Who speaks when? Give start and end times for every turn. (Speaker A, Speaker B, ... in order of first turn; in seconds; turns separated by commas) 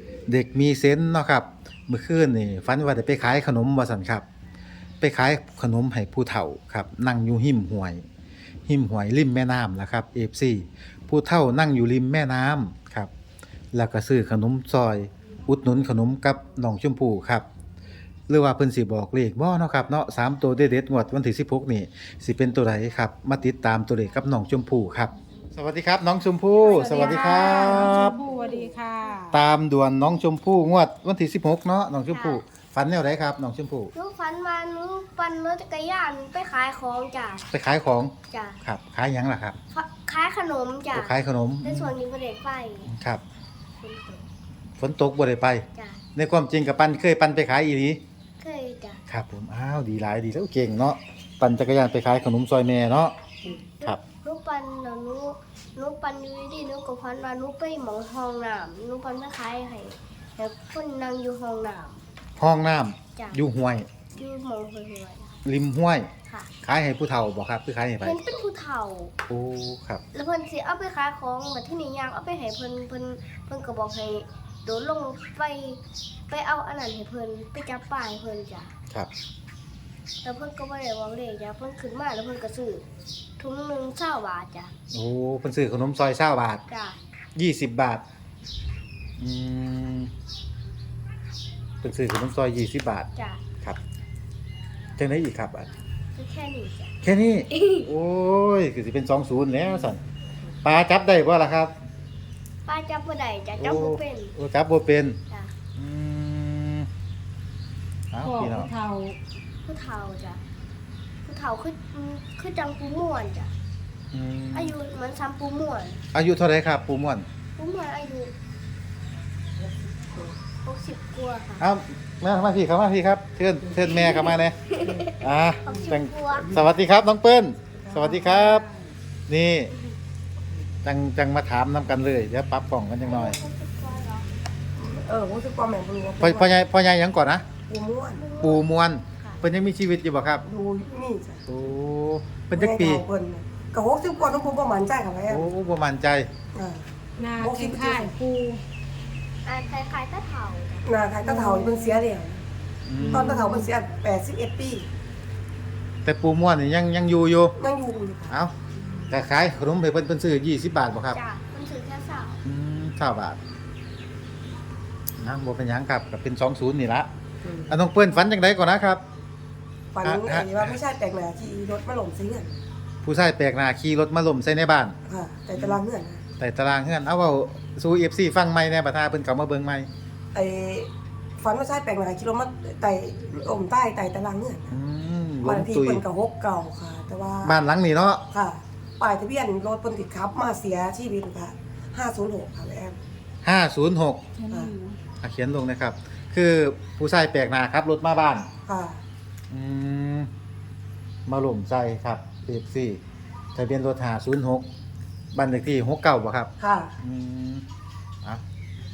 Speaker A: 0.3-4.2, Speaker A: 5.0-8.0, Speaker A: 8.7-13.1, Speaker A: 13.7-17.4, Speaker A: 18.3-28.2, Speaker B: 26.5-29.2, Speaker C: 26.9-29.4, Speaker A: 29.3-33.9, Speaker B: 32.1-32.4, Speaker B: 33.9-37.5, Speaker A: 37.5-38.1, Speaker B: 38.3-38.6, Speaker A: 38.6-39.5, Speaker B: 39.7-42.9, Speaker A: 40.9-41.9, Speaker A: 42.9-43.2, Speaker B: 43.8-44.2, Speaker A: 44.8-45.6, Speaker B: 45.7-46.0, Speaker A: 46.1-48.0, Speaker B: 48.4-49.0, Speaker A: 49.1-53.1, Speaker B: 53.4-62.0, Speaker A: 62.4-63.9, Speaker B: 63.1-63.4, Speaker B: 64.1-65.4, Speaker A: 65.4-66.1, Speaker A: 66.6-68.2, Speaker B: 68.0-69.1, Speaker A: 69.3-70.0, Speaker B: 70.1-78.7, Speaker B: 80.2-82.8, Speaker B: 83.4-84.7, Speaker A: 84.9-86.6, Speaker B: 86.7-87.0, Speaker A: 87.3-88.0, Speaker A: 89.2-90.1, Speaker A: 91.8-93.1, Speaker B: 93.2-93.4, Speaker A: 95.0-95.7, Speaker B: 96.1-96.9, Speaker A: 97.0-100.0, Speaker B: 97.6-97.8, Speaker A: 100.6-101.7, Speaker B: 102.7-104.3, Speaker A: 103.6-105.2, Speaker A: 105.8-106.9, Speaker A: 108.1-108.7, Speaker C: 108.2-109.2, Speaker B: 109.6-110.4, Speaker B: 111.2-113.5, Speaker A: 114.1-114.7, Speaker B: 114.5-116.0, Speaker A: 116.1-117.2, Speaker B: 117.6-118.3, Speaker B: 120.6-121.6, Speaker A: 121.6-128.7, Speaker B: 123.9-126.5, Speaker D: 127.8-128.2, Speaker C: 128.2-128.8, Speaker A: 129.3-129.7, Speaker A: 130.8-133.4, Speaker B: 133.1-134.3, Speaker D: 134.8-136.5, Speaker A: 136.2-137.4, Speaker D: 137.7-138.2, Speaker B: 138.1-138.7, Speaker A: 138.4-140.4, Speaker D: 140.4-141.4, Speaker A: 141.5-143.0, Speaker D: 142.5-145.5, Speaker A: 145.3-146.3, Speaker D: 146.5-148.1, Speaker C: 147.2-148.6, Speaker B: 149.4-150.9, Speaker D: 150.8-152.4, Speaker A: 152.8-153.6, Speaker D: 153.1-154.9, Speaker A: 156.0-157.6, Speaker D: 157.6-158.3, Speaker A: 159.1-161.2, Speaker B: 161.1-162.4, Speaker A: 162.4-163.4, Speaker A: 165.2-167.1, Speaker D: 167.4-167.8, Speaker A: 167.7-169.0, Speaker D: 169.9-172.6, Speaker A: 170.0-170.7, Speaker A: 173.0-174.9, Speaker D: 175.1-176.2, Speaker A: 175.5-175.8, Speaker A: 176.4-179.9, Speaker D: 180.3-184.8, Speaker A: 184.7-186.0, Speaker D: 185.4-187.5, Speaker A: 187.4-188.2, Speaker D: 188.3-193.0, Speaker A: 193.4-194.2, Speaker C: 194.4-195.0, Speaker A: 195.2-198.5, Speaker D: 198.7-199.0, Speaker A: 199.5-200.3, Speaker A: 201.3-203.0, Speaker A: 203.5-204.7, Speaker A: 205.3-207.6, Speaker D: 206.6-206.9